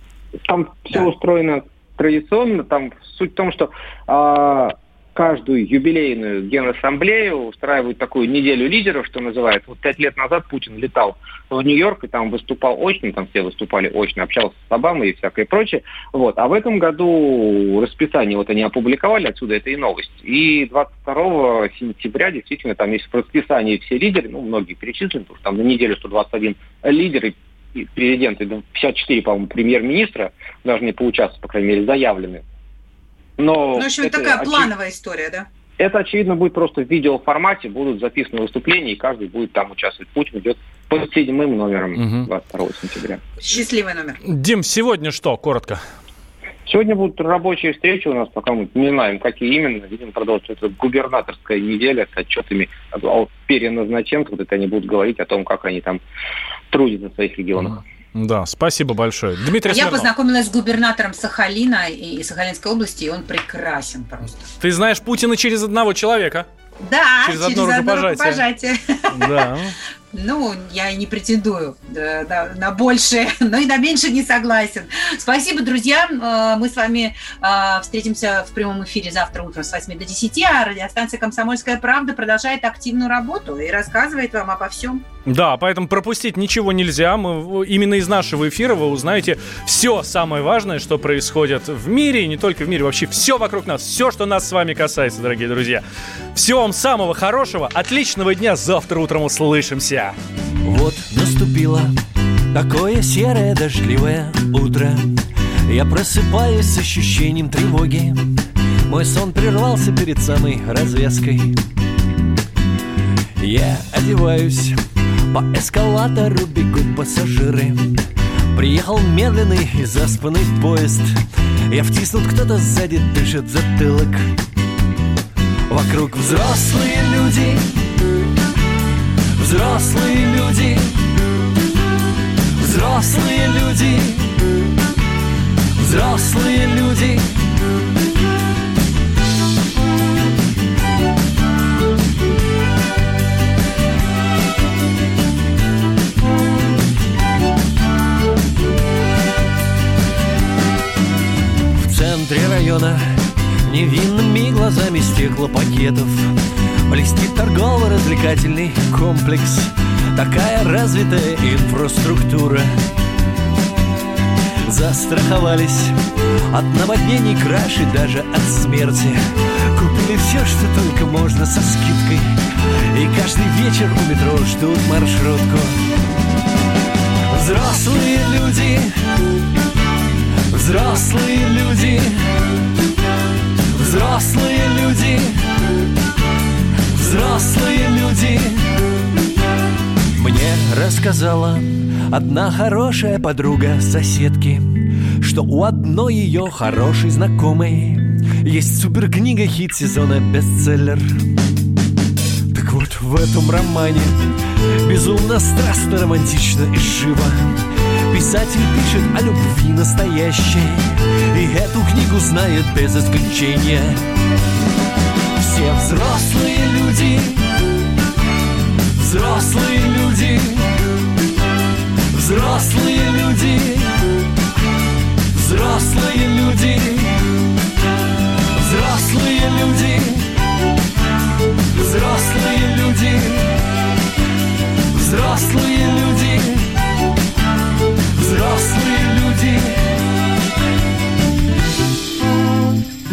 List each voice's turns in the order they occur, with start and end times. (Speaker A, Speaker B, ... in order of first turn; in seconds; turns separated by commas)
Speaker A: 0.5-32.4, Speaker A: 33.4-34.7, Speaker B: 33.7-35.5, Speaker A: 35.8-43.2, Speaker C: 42.0-42.3, Speaker B: 43.4-44.2, Speaker C: 44.2-45.8, Speaker A: 46.6-56.0, Speaker A: 56.7-57.8, Speaker C: 57.6-60.1, Speaker B: 59.7-64.5, Speaker C: 64.6-66.5, Speaker B: 66.8-69.5, Speaker C: 67.2-68.4, Speaker C: 69.1-69.8, Speaker B: 70.1-85.0, Speaker C: 85.2-95.8, Speaker C: 96.3-100.1, Speaker D: 100.6-101.9, Speaker D: 102.5-105.0, Speaker D: 105.7-108.3, Speaker D: 108.9-111.6, Speaker D: 113.4-114.8, Speaker D: 115.3-117.9, Speaker D: 118.5-121.2, Speaker D: 121.7-124.3, Speaker D: 125.7-127.8, Speaker D: 129.4-131.1, Speaker D: 132.6-134.4, Speaker D: 135.8-137.5, Speaker D: 151.8-153.0, Speaker D: 153.7-156.3, Speaker D: 156.9-162.7, Speaker D: 164.7-165.9, Speaker D: 166.5-169.2, Speaker D: 169.7-172.3, Speaker D: 172.9-175.8, Speaker D: 177.3-178.9, Speaker D: 180.5-182.1, Speaker D: 183.7-185.4, Speaker D: 186.9-188.8, Speaker D: 190.1-201.1, Speaker D: 202.5-204.2, Speaker D: 204.8-207.6, Speaker D: 208.1-214.0, Speaker D: 215.4-217.6, Speaker D: 218.9-220.8, Speaker D: 222.1-224.1, Speaker D: 225.3-227.3, Speaker D: 228.5-230.3, Speaker D: 231.7-233.6, Speaker D: 234.9-236.7, Speaker D: 238.1-239.8